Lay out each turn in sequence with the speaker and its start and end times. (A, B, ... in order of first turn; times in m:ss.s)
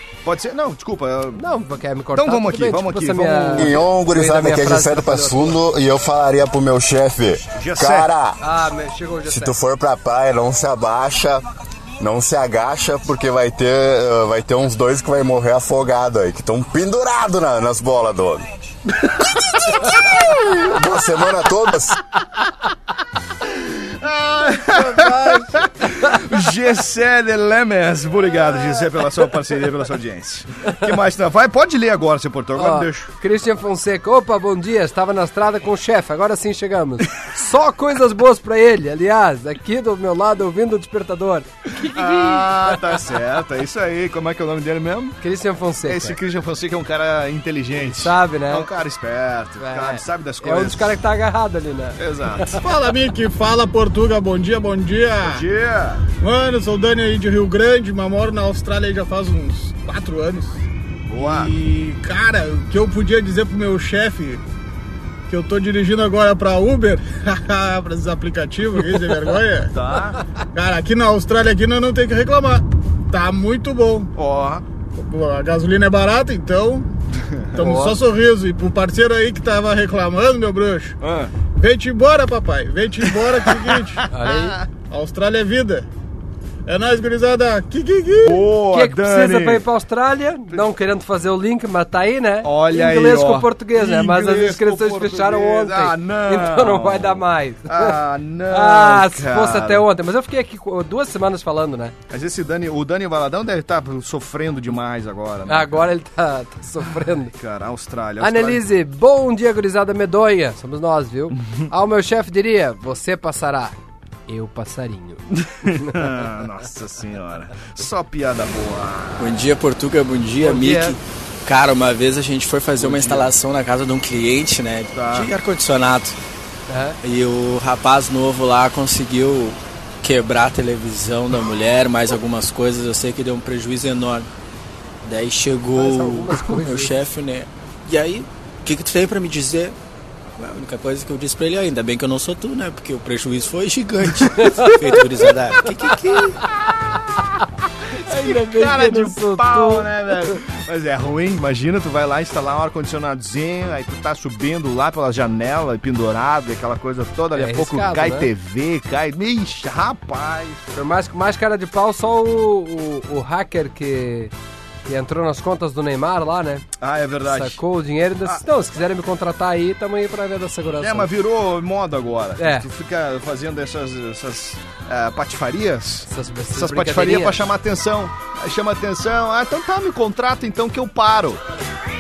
0:00.2-0:01.4 A
0:01.4-0:05.6 B
0:02.1-0:03.9 A
0:03.6-0:08.4 C
0:07.5-0:08.1 A
0:08.4-0:09.6 B
0:09.3-0:11.4 C
0:12.0-0:18.5 C
0:19.7-0:22.0 C
0:23.4-0:33.1 A
0:24.6-0:26.2 B
0:32.6-0:43.0 B
0:41.8-0:45.2 A
0:45.2-0:46.2 B
0:45.8-0:51.0 A
0:47.8-0:48.7 B
0:49.6-0:52.6 B
0:52.0-0:52.6 A
0:52.6-0:55.4 D
0:55.2-0:56.0 A
0:56.2-1:00.6 D
1:01.1-1:01.5 A
1:01.2-1:04.4 D
1:05.3-1:09.7 D
1:09.7-1:10.2 A
1:10.5-1:14.1 D
1:14.2-1:14.6 A
1:15.0-1:16.9 D
1:17.2-1:17.6 A
1:17.6-1:21.0 D
1:17.6-1:18.0 B
1:21.0-1:21.3 A
1:21.6-1:24.0 D
1:23.5-1:24.7 A
1:24.1-1:24.6 B
1:24.9-1:25.9 D
1:26.7-1:28.5 D
1:28.2-1:29.7 A
1:28.7-1:42.0 B
1:32.4-1:39.9 A
1:42.1-1:45.8 A
1:45.5-1:47.3 B
1:47.3-1:48.6 A
1:48.2-1:53.8 B
1:54.3-1:56.3 B
1:55.3-1:59.4 A
1:59.2-2:06.2 E
2:00.4-2:01.0 B
2:02.8-2:03.3 A
2:04.9-2:05.3 A
2:06.7-2:07.0 B
2:07.0-2:14.3 E
2:15.0-2:19.8 E
2:15.7-2:17.0 B
2:20.4-2:26.4 E
2:24.4-2:24.7 B
2:28.0-2:30.4 B
2:28.1-2:40.7 A
2:37.3-2:38.3 B
2:40.7-2:44.3 B
2:44.9-2:46.6 B
2:46.8-2:47.6 A
2:47.2-2:51.1 B
2:50.8-3:01.4 A
2:52.4-2:52.7 B
2:56.1-2:57.5 B